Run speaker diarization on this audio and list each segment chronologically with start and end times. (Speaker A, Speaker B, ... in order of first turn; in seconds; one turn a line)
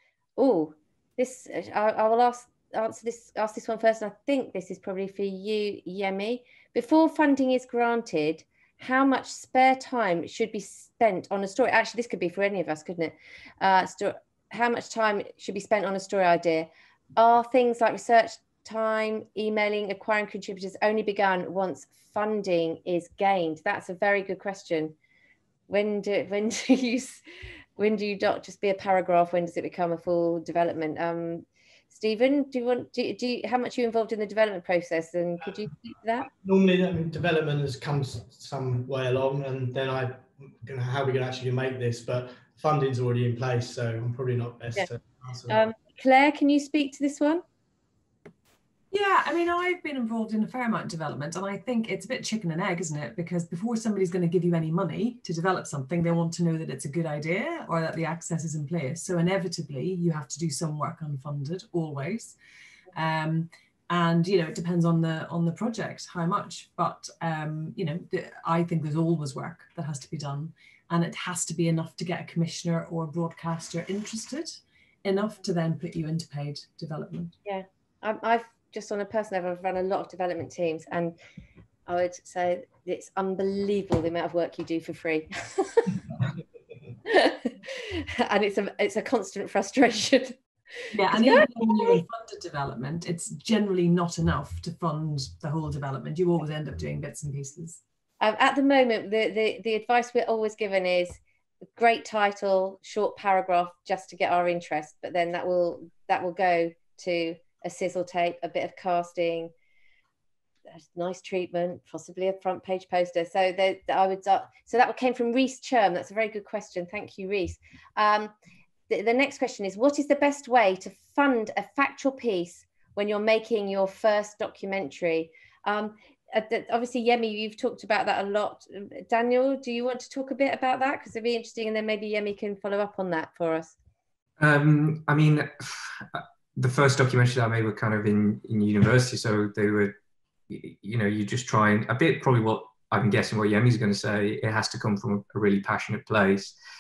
Speaker A: 0.4-24.9
Speaker A: 25.7-27.2
Speaker A: 27.8-36.3
Speaker B: 36.3-45.7
Speaker A: 45.5-47.4
Speaker C: 48.9-62.4
Speaker C: 62.9-77.3
Speaker A: 77.5-81.2
Speaker A: 81.9-86.0
Speaker A: 87.0-92.0
Speaker C: 90.9-97.8
Speaker A: 98.2-101.2
Speaker A: 101.8-109.5
Speaker A: 110.7-118.3
Speaker A: 118.9-133.8
Speaker D: 134.4-139.9
Speaker D: 140.5-146.6